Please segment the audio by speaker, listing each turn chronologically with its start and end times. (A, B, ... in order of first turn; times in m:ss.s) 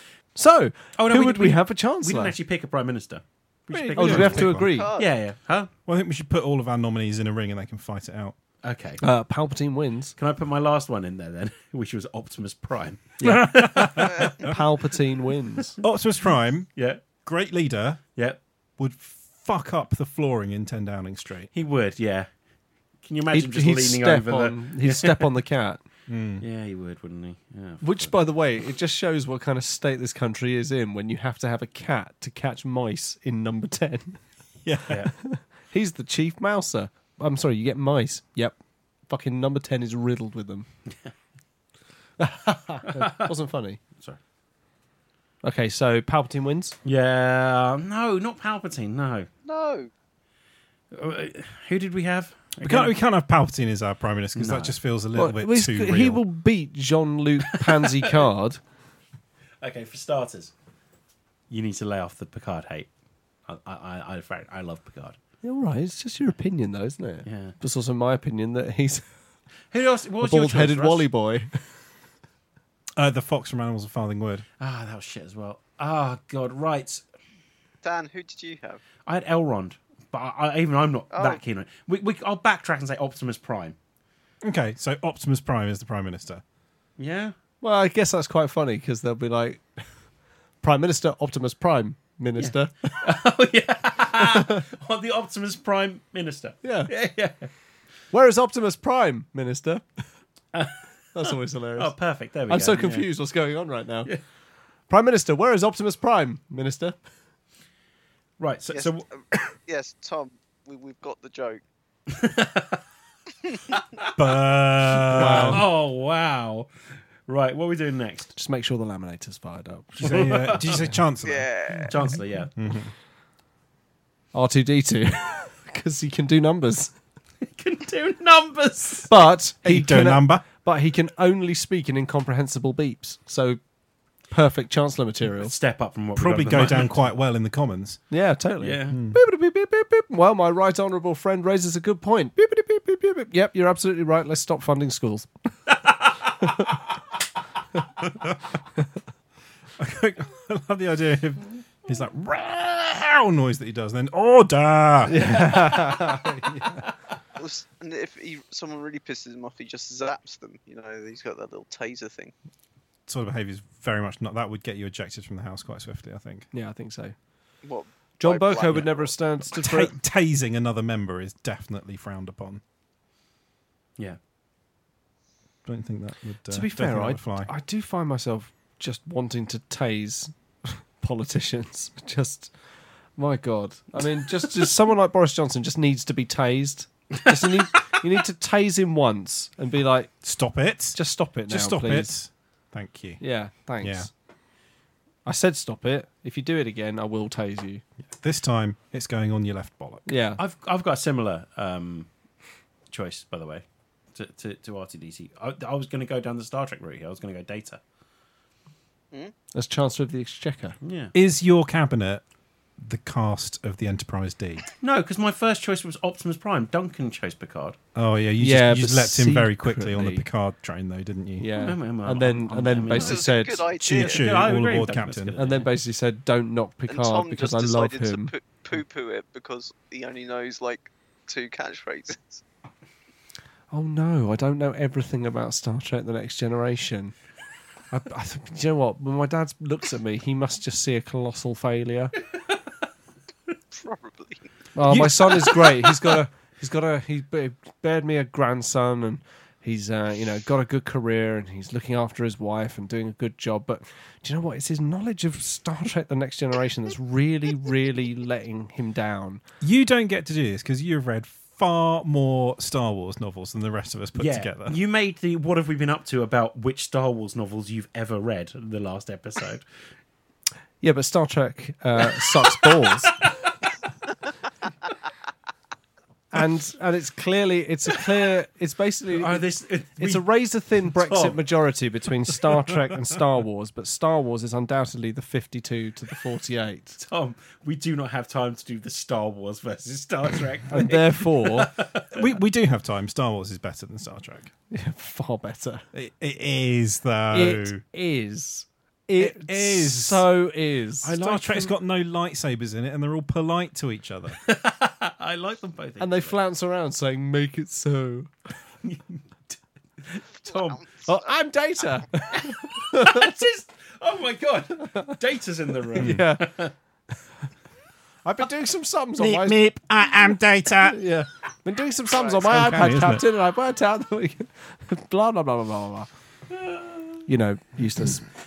0:00.3-0:02.4 A
0:01.0-0:05.7 B
0:03.7-0:04.9 A
0:04.0-0:04.9 C
0:04.7-0:05.1 D
0:05.9-0:08.4 C
0:08.6-0:09.0 B
0:09.0-0:10.1 A
0:10.2-0:14.4 B
0:13.2-0:14.6 C
0:14.0-0:15.8 A
0:15.8-0:16.7 C
0:16.8-0:17.0 B
0:17.2-0:18.0 C
0:18.8-0:21.5 C
0:21.5-0:22.3 B
0:23.0-0:25.3 B
0:23.3-0:25.8 A
0:26.1-0:26.4 C
0:26.4-0:28.2 B
0:27.8-0:34.2 A
0:34.8-0:38.6 A
0:34.9-0:35.1 B
0:39.1-0:40.7 A
0:42.2-0:43.8 A
0:42.9-0:43.2 B
0:45.4-0:46.8 A
0:46.8-0:49.3 B
0:49.4-0:49.9 D
0:50.9-0:52.9 B
0:52.6-0:56.2 C
0:54.3-0:54.7 B
0:55.1-0:58.6 A
0:57.5-0:58.3 B
0:59.6-1:00.5 B
1:01.5-1:02.9 B
1:03.5-1:05.2 B
1:05.4-1:09.0 A
1:07.2-1:07.5 B
1:09.7-1:11.1 B
1:10.2-1:11.6 A
1:13.0-1:14.4 C
1:14.6-1:17.0 B
1:17.8-1:18.8 D
1:19.1-1:23.8 B
1:21.1-1:21.4 D
1:24.4-1:26.4 C
1:27.0-1:27.3 B
1:27.6-1:29.8 A
1:30.6-1:32.9 A
1:32.4-1:37.5 B
1:34.2-1:34.6 A
1:36.6-1:36.9 A
1:38.1-1:40.0 A
1:40.5-1:43.1 B
1:41.1-1:41.9 A
1:42.5-1:44.1 A
1:44.9-1:47.0 A
1:48.4-1:49.0 B
1:48.7-1:51.6 D
1:52.1-1:52.8 B
1:54.2-1:55.6 C
1:55.0-1:55.7 A
1:55.1-1:56.7 B
1:57.3-1:58.3 B
1:58.3-2:01.0 A
2:00.0-2:00.8 B
2:00.0-2:01.8 C
2:01.2-2:01.9 D
2:01.9-2:02.5 B
2:02.6-2:02.9 C
2:04.3-2:06.9 A
2:07.4-2:09.1 B
2:09.1-2:13.6 A
2:09.6-2:10.4 C
2:14.3-2:15.5 A
2:15.4-2:17.1 B
2:16.1-2:18.0 C
2:18.1-2:25.3 A
2:18.6-2:19.0 B
2:18.9-2:19.2 C
2:26.4-2:26.7 A
2:29.8-2:36.2 C
2:35.0-2:36.8 A
2:37.4-2:42.3 D
2:43.1-2:46.5 C
2:46.5-2:47.2 A
2:47.6-2:49.1 D
2:48.2-2:49.9 A
2:49.5-2:52.6 C
2:55.6-2:57.5 C
2:56.5-3:02.5 A
3:03.2-3:10.1 A
3:10.2-3:11.0 C
3:10.9-3:12.1 A
3:11.5-3:13.2 C
3:13.2-3:14.1 A
3:13.8-3:14.1 C
3:15.2-3:17.8 A
3:18.1-3:20.0 C
3:20.0-3:20.4 A
3:20.4-3:22.1 B
3:22.9-3:23.6 B
3:24.1-3:27.8 B
3:29.5-3:30.8 A
3:30.8-3:31.1 B
3:31.1-3:32.2 C
3:32.8-3:34.7 C
3:34.8-3:37.8 B
3:37.9-3:41.5 C
3:38.4-3:40.2 A
3:41.4-3:43.6 A
3:41.5-3:45.7 B
3:42.8-3:44.6 D
3:43.8-3:45.4 C
3:45.4-3:48.3 A
3:46.9-3:52.4 D
3:53.7-3:57.1 A
3:57.9-4:02.1 A
4:03.7-4:04.5 D
4:04.8-4:19.4 A
4:04.9-4:06.0 B
4:19.6-4:24.8 C
4:24.2-4:29.6 B
4:30.8-4:33.1 A
4:36.3-4:39.4 A
4:39.1-4:40.2 B
4:40.0-4:47.0 A
4:40.8-4:41.4 B
4:47.0-4:52.3 B
4:50.7-4:51.7 A
4:52.1-4:54.5 C
4:54.7-4:55.8 A
4:55.9-4:57.8 C
4:57.3-5:01.7 A
4:59.2-5:00.3 C
5:01.0-5:04.4 C
5:04.4-5:06.3 B
5:06.0-5:08.3 A
5:08.8-5:10.8 B
5:10.5-5:11.2 D
5:11.0-5:13.4 A
5:12.3-5:16.7 B
5:14.8-5:15.2 A
5:15.9-5:16.6 A
5:16.0-5:16.2 C
5:18.2-5:19.6 A
5:19.2-5:21.0 C
5:20.8-5:26.1 A
5:22.4-5:23.2 C
5:26.5-5:27.2 B
5:27.3-5:28.2 A